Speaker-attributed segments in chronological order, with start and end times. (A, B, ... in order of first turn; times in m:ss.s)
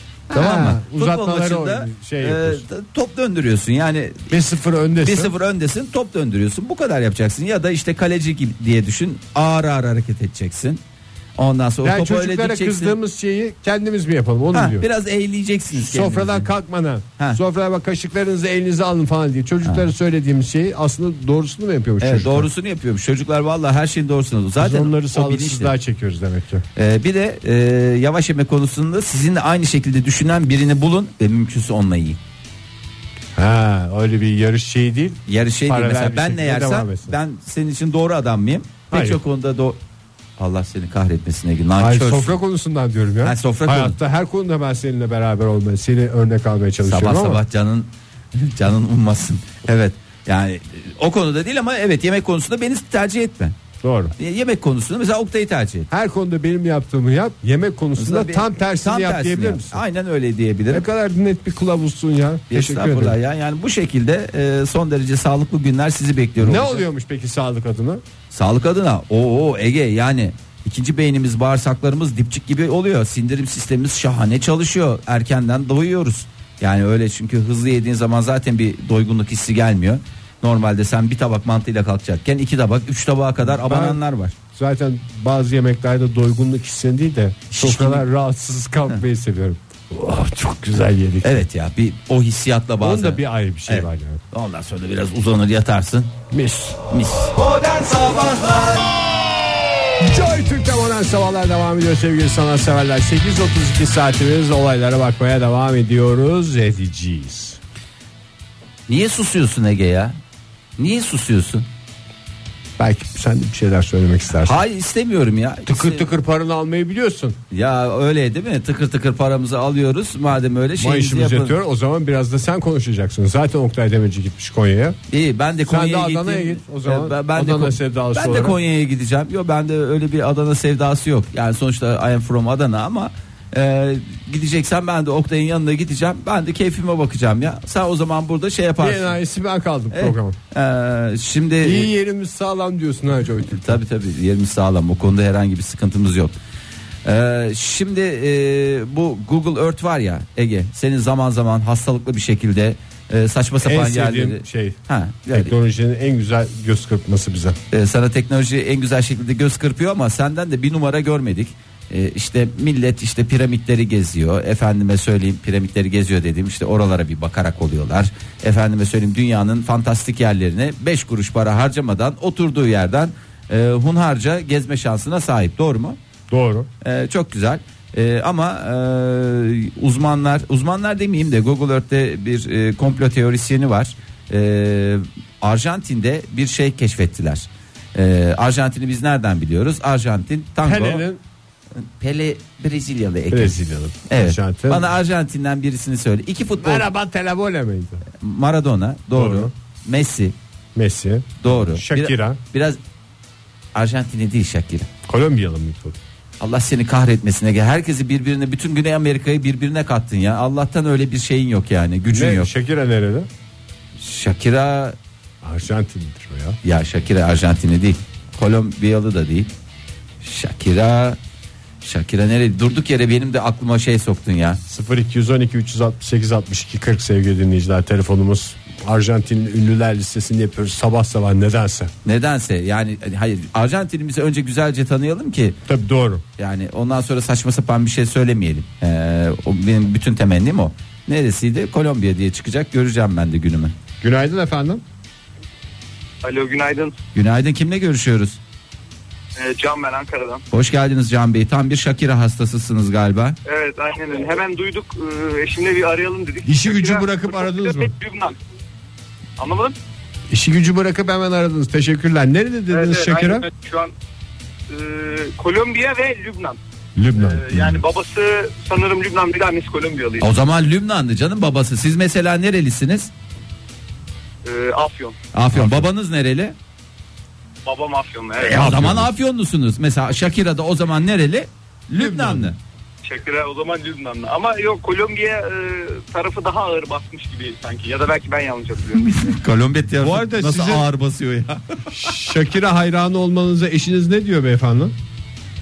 0:00.3-0:02.6 A
0:00.3-0:04.4 B
0:04.3-0:05.3 A
0:05.0-0:10.8 B
0:11.4-0:13.0 B
0:11.8-0:14.8 A
0:14.5-0:16.5 B
0:15.7-0:22.5 A
0:22.0-0:25.7 B
0:24.6-0:26.6 A
0:26.8-0:32.2 B
0:33.4-0:37.2 A
0:35.3-0:39.8 B
0:38.9-0:39.2 A
0:40.4-0:42.4 B
0:41.8-0:47.4 A
0:43.2-0:44.0 B
0:46.8-0:53.5 B
0:53.8-0:54.1 A
0:54.2-0:55.9 B
0:55.9-0:59.8 A
0:58.0-1:00.8 B
1:00.7-1:03.2 A
1:02.5-1:06.8 B
1:06.4-1:08.0 A
1:08.3-1:24.4 B
1:23.4-1:24.0 A
1:24.5-1:31.4 A
1:27.5-1:28.0 B
1:31.2-1:36.1 B
1:32.8-1:34.2 A
1:36.3-1:36.8 A
1:36.9-1:39.0 B
1:40.0-1:47.6 A
1:48.9-1:50.2 B
1:50.8-1:51.6 B
1:52.8-1:54.6 A
1:54.4-1:56.1 B
1:55.6-1:57.4 A
1:57.5-2:01.6 B
2:00.8-2:05.0 A
2:05.1-2:19.1 B
2:05.6-2:08.6 A
2:18.8-2:20.4 A
2:19.9-2:21.9 B
2:21.6-2:23.8 A
2:23.5-2:26.3 B
2:27.0-2:35.5 B
2:33.6-2:34.8 A
2:35.3-2:37.6 A
2:37.7-2:56.0 B
2:56.3-2:56.7 A
2:56.8-3:11.0 B
3:10.6-3:11.2 A
3:11.8-3:16.9 B
3:13.3-3:14.8 A
3:16.6-3:18.0 A
3:18.2-3:20.3 B
3:19.1-3:19.5 A
3:20.7-3:22.4 A
3:21.4-3:22.8 B
3:23.7-3:24.9 B
3:25.1-3:26.0 A
3:26.4-3:32.5 B
3:32.1-3:33.3 A
3:34.0-3:35.0 B
3:35.4-3:36.6 A
3:36.6-3:39.5 B
3:40.2-3:41.2 B
3:41.8-3:44.6 B
3:44.7-3:51.9 A
3:52.0-3:55.6 B
3:55.6-3:56.2 A
3:56.4-4:03.7 B
4:04.0-4:04.8 A
4:06.2-4:07.0 C
4:07.1-4:08.4 B
4:09.3-4:10.4 C
4:10.5-4:13.4 B
4:13.4-4:18.4 C
4:16.4-4:17.9 A
4:19.4-4:19.8 C
4:20.3-4:23.5 A
4:22.7-4:23.9 C
4:24.7-4:26.6 C
4:27.0-4:27.8 A
4:27.2-4:30.3 C
4:30.2-4:33.1 B
4:34.4-4:35.2 C
4:35.3-4:36.5 B
4:35.5-4:35.9 A
4:37.6-4:38.8 C
4:38.4-4:42.6 B
4:38.5-4:39.1 A
4:41.9-4:42.5 A
4:43.0-4:49.3 C
4:48.9-4:51.9 B
4:50.0-4:50.8 A
4:51.9-4:54.9 A